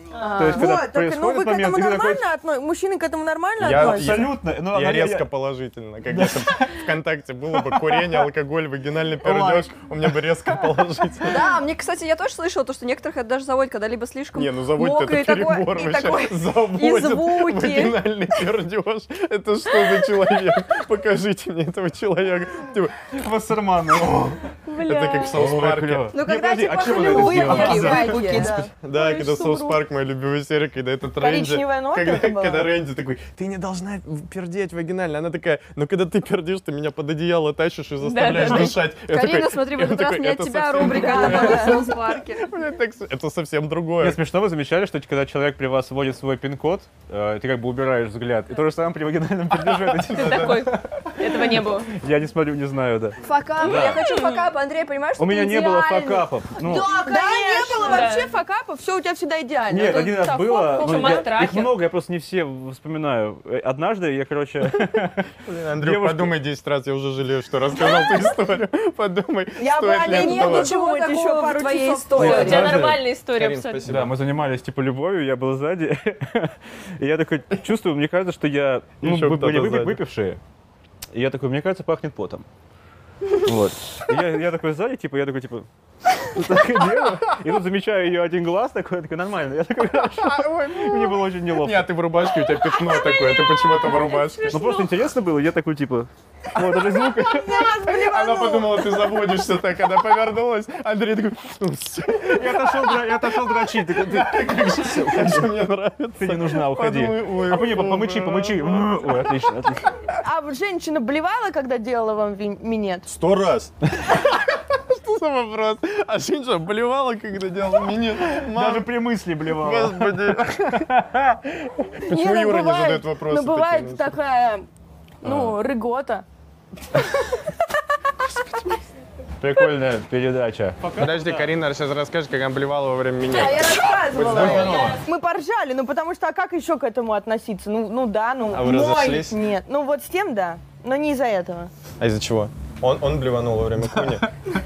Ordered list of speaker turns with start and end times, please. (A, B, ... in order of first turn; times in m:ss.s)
0:00.2-0:04.3 A
0:00.3-0:02.2 B
0:03.6-0:11.5 C
0:03.6-0:05.3 B
0:06.1-0:06.9 B
0:07.5-0:08.3 B
0:09.2-0:09.7 B
0:11.2-0:18.0 D
0:14.4-0:23.1 C
0:23.1-0:24.5 B
0:24.8-0:25.3 A
0:24.8-0:26.2 C
0:25.3-0:28.4 B
0:26.1-0:28.6 D
0:26.8-0:29.8 A
0:28.8-0:44.2 C
0:31.2-0:32.7 A
0:38.0-0:38.8 E
0:38.5-0:42.5 D
0:40.8-0:41.9 A
0:44.0-0:51.2 B
0:49.6-0:50.6 C
0:50.1-0:51.9 E
0:51.9-0:54.0 B
0:53.2-0:58.1 D
0:53.7-0:54.5 E
0:55.2-0:56.9 B
0:56.6-1:01.2 A
0:57.8-0:58.3 E
0:59.7-1:06.3 B
0:59.9-1:01.7 E
1:05.5-1:10.7 C
1:09.6-1:12.7 A
1:10.0-1:12.8 D
1:12.2-1:13.0 B
1:12.2-1:13.8 E
1:12.6-1:14.2 C
1:13.9-1:20.4 B
1:19.0-1:20.0 C
1:21.1-1:22.5 B
1:23.4-1:25.7 B
1:26.2-1:31.9 B
1:30.2-1:34.7 C
1:32.9-1:34.9 E
1:34.5-1:37.8 B
1:36.6-1:36.8 C
1:37.2-1:39.1 A
1:37.8-1:49.2 C
1:42.3-1:45.5 B
1:46.2-1:50.0 B
1:50.1-1:53.1 A
1:53.1-1:58.9 C
1:58.2-2:01.4 B
1:59.5-2:00.9 C
2:02.0-2:04.2 C
2:02.1-2:04.7 A
2:05.2-2:06.2 A
2:05.2-2:05.6 B
2:09.4-2:11.5 B
2:11.0-2:14.9 C
2:13.3-2:13.9 D
2:13.4-2:21.7 A
2:14.3-2:15.0 B
2:14.6-2:15.0 E
2:18.5-2:19.4 C
2:22.0-2:24.3 C
2:24.0-2:24.2 B